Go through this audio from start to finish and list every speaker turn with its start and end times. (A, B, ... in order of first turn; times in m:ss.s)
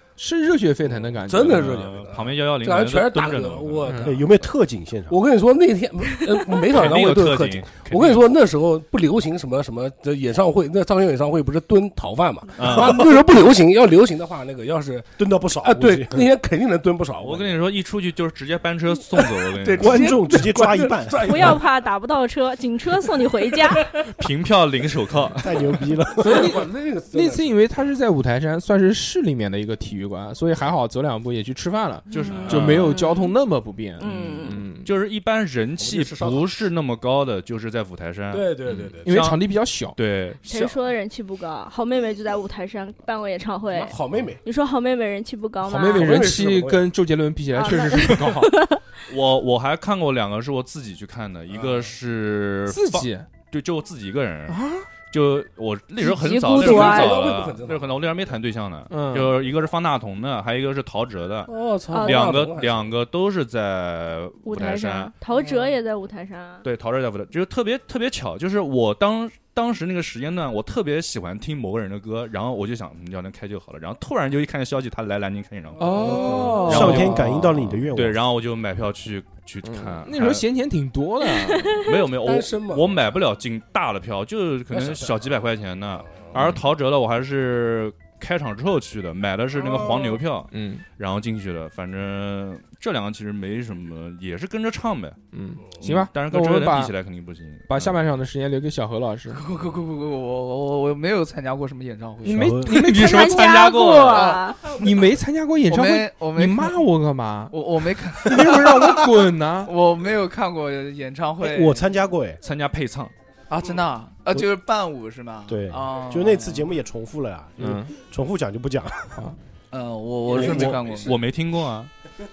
0:00.2-0:01.8 A
0:01.2-0:04.3 B
0:01.4-0:04.0 C
0:03.9-0:04.2 A
0:04.0-0:05.2 D
0:05.1-0:17.6 B
0:06.7-0:08.3 C
0:12.6-0:13.1 C
0:15.2-0:16.3 D
0:17.2-0:20.2 C
0:19.2-0:21.7 B
0:19.8-0:21.6 D
0:21.2-0:23.9 E
0:24.1-0:25.6 C
0:25.4-0:26.6 D
0:26.2-0:27.6 B
0:26.2-0:34.9 A
0:32.1-0:33.0 C
0:32.2-0:33.4 E
0:32.2-0:32.7 B
0:34.0-0:34.6 E
0:34.0-0:39.4 C
0:35.8-0:36.5 B
0:38.3-0:39.2 B
0:39.0-0:40.0 A
0:40.0-0:40.8 C
0:40.5-0:46.3 E
0:43.7-0:44.4 B
0:45.6-0:48.6 A
0:45.9-0:46.9 B
0:47.5-0:48.8 E
0:49.1-0:54.6 C
0:51.5-0:51.9 B
0:52.7-0:53.3 A
0:54.5-0:54.9 A
0:55.1-1:05.1 C
0:56.0-0:57.4 E
0:56.5-0:58.3 B
0:58.9-0:59.4 A
1:01.5-1:03.0 B
1:01.9-1:02.4 E
1:04.5-1:06.6 E
1:05.4-1:05.7 B
1:06.6-1:20.4 C
1:15.8-1:16.6 B
1:15.8-1:17.6 A
1:15.8-1:17.1 F
1:16.6-1:18.2 D
1:19.6-1:21.8 A
1:21.3-1:21.9 E
1:21.8-1:35.2 C
1:22.1-1:23.0 B
1:24.7-1:25.3 B
1:29.6-1:30.2 B
1:30.5-1:30.8 A
1:35.3-1:36.9 A
1:35.8-1:38.0 C
1:37.7-1:39.4 A
1:39.3-1:42.6 F
1:42.2-1:43.5 A
1:42.3-1:42.9 D
1:42.7-1:44.4 C
1:42.9-1:44.7 E
1:44.0-1:44.5 F
1:44.7-1:47.6 A
1:45.7-1:46.8 F
1:47.5-1:51.8 F
1:48.2-1:49.7 A
1:51.4-1:52.4 D
1:52.4-1:53.1 C
1:53.5-1:56.7 F
1:55.5-1:59.3 D
1:57.6-1:57.9 A
1:59.7-2:01.2 F
2:00.3-2:00.8 D
2:00.3-2:01.2 B
2:00.5-2:01.9 C